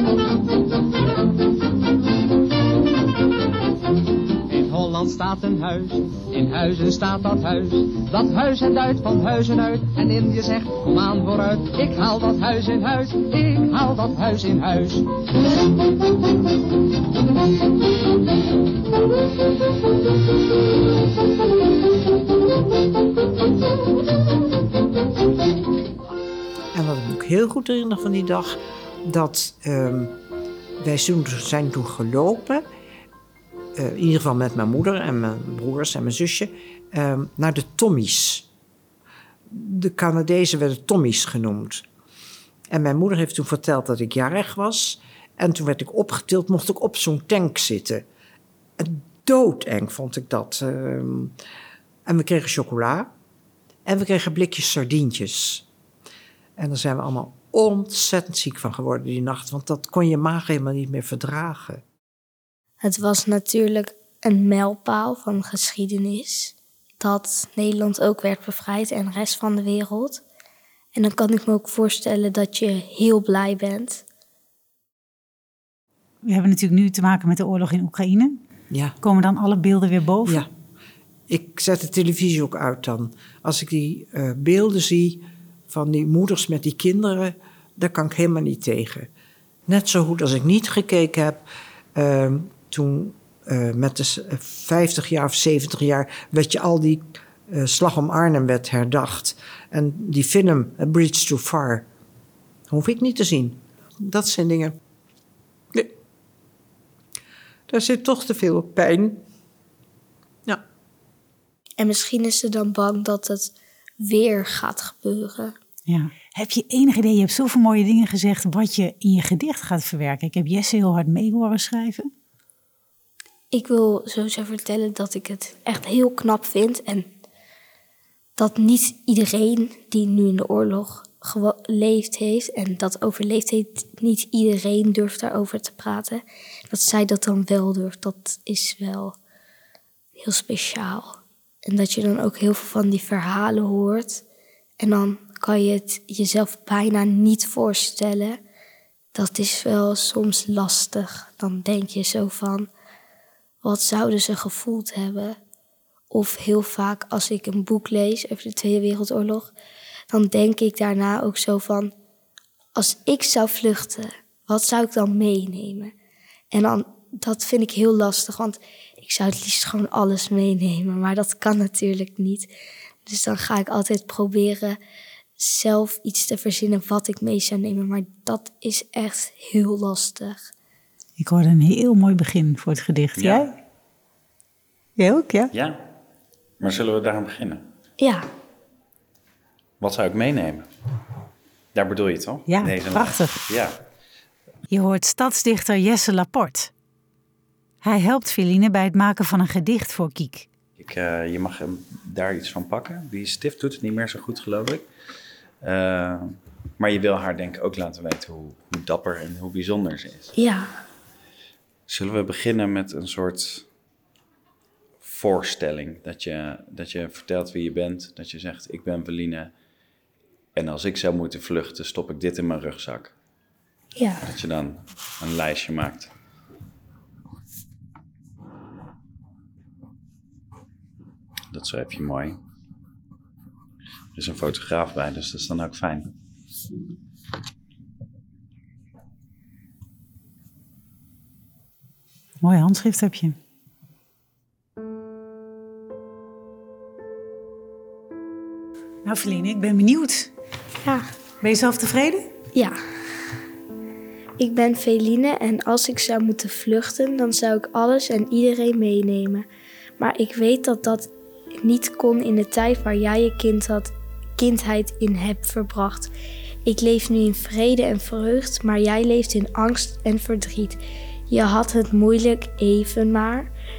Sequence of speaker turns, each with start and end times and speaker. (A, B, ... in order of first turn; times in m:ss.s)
0:04.5-0:15.2 A
0:26.7-0:30.1 B
0:30.8-0:32.6 B
0:33.8-0:38.5 B
0:39.5-0:41.9 B
0:42.7-0:48.0 B
0:48.8-0:51.3 B
0:52.1-0:53.1 B
0:53.8-0:55.6 B
0:56.6-1:01.8 B
1:02.8-1:10.2 C
1:11.0-1:14.0 C
1:16.2-1:18.4 D
1:18.7-1:19.0 B
1:19.0-1:20.4 D
1:21.3-1:29.1 B
1:29.7-1:31.4 B
1:32.0-1:41.9 B
1:42.7-1:44.8 B
1:47.7-1:49.2 B
1:51.8-1:55.5 C
1:55.9-2:02.1 D
2:03.5-2:07.1 C
2:08.4-2:19.2 C
2:20.2-2:24.2 C
2:24.8-2:28.4 C
2:29.1-2:32.7 C
2:33.6-2:35.4 C
2:36.1-2:39.5 C
2:40.1-2:41.9 C
2:42.8-2:45.9 C
2:46.5-2:52.5 C
2:53.0-2:54.8 C
2:55.4-3:00.5 C
3:01.2-3:03.5 D
3:03.2-3:03.5 E
3:05.0-3:05.5 D
3:05.5-3:05.8 E
3:06.6-3:07.6 E
3:08.0-3:08.3 C
3:09.8-3:10.7 E
3:11.7-3:13.8 E
3:12.5-3:13.4 D
3:14.7-3:16.7 D
3:17.8-3:20.5 D
3:20.8-3:24.9 E
3:25.6-3:30.3 E
3:30.4-3:30.7 C
3:31.9-3:33.7 E
3:35.0-3:39.5 E
3:40.5-3:43.1 E
3:44.0-3:44.2 C
3:44.2-3:46.1 E
3:51.5-3:52.4 E
3:54.1-3:56.1 E
4:02.4-4:03.4 D
4:09.0-4:10.3 D
4:10.8-4:11.1 C
4:11.4-4:12.3 D
4:14.4-4:19.5 C
4:20.0-4:26.1 C
4:26.6-4:33.5 C